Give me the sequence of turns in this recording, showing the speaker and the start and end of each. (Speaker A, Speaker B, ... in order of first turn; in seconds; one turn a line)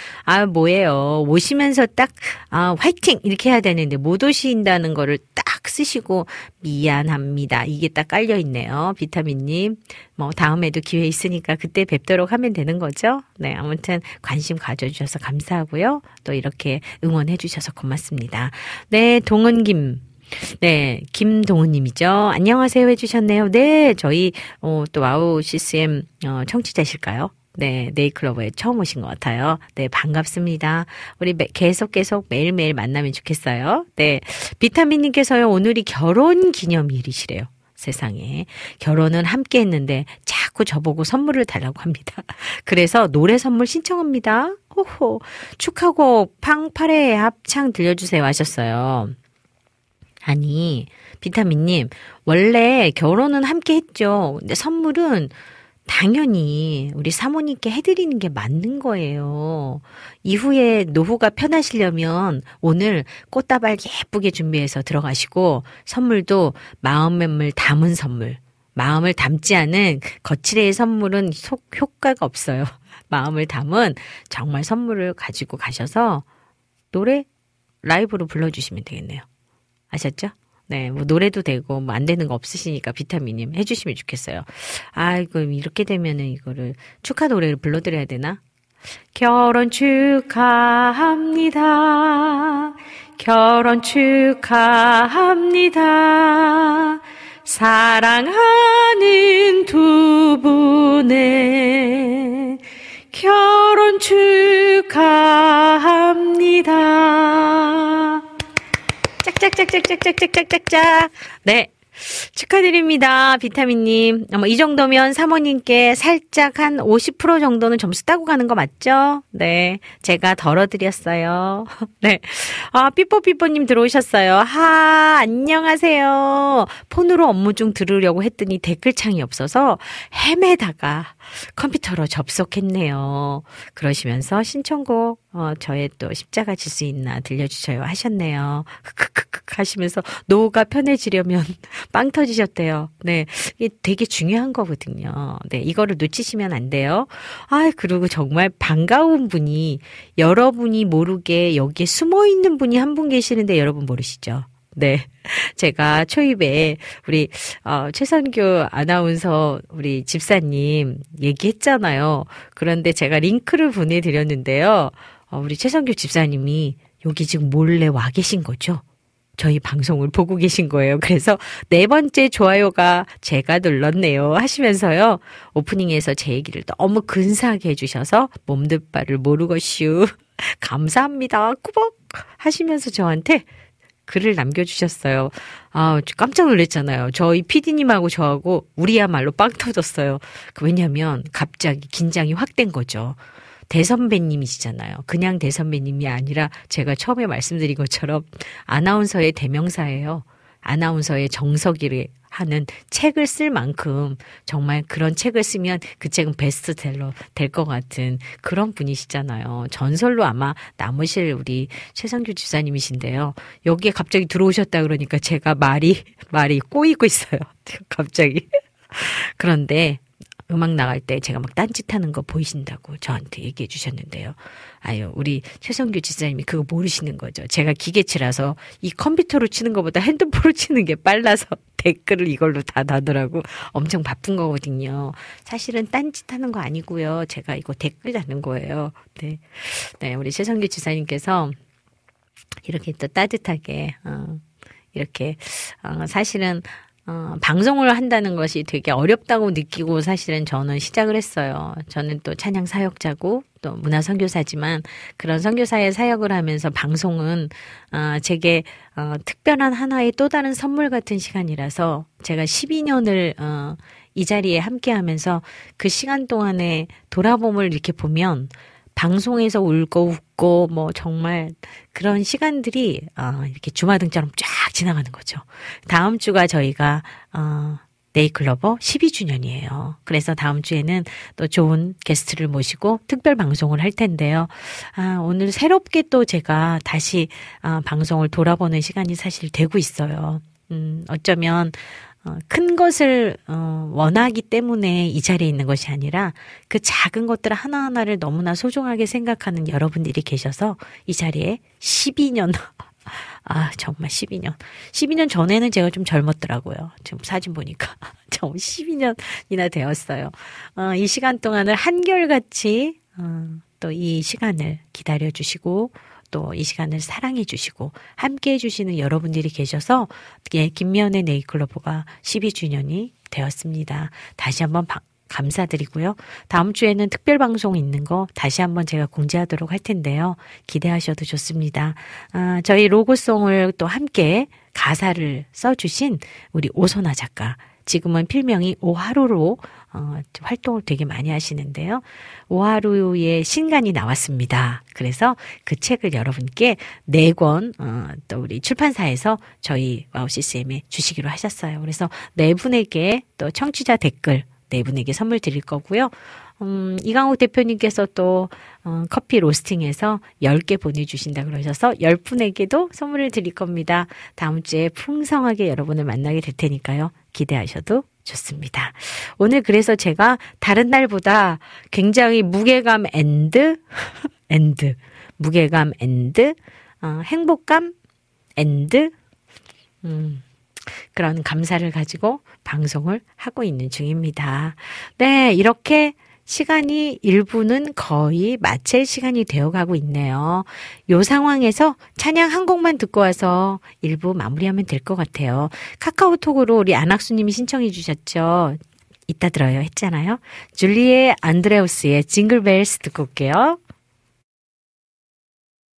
Speaker A: 0.2-49.1
Speaker A: 50.2-55.3
Speaker A: 55.9-76.2
Speaker A: 76.9-77.3
Speaker A: 77.8-79.2
Speaker A: 79.9-88.4
Speaker A: 89.1-102.6
Speaker A: 103.1-108.2
Speaker A: 109.2-168.8
Speaker A: 169.4-183.4
Speaker A: 184.1-241.6
Speaker A: 242.6-244.4
Speaker A: 244.9-377.9
Speaker A: 378.6-379.1
Speaker A: 380.0-403.8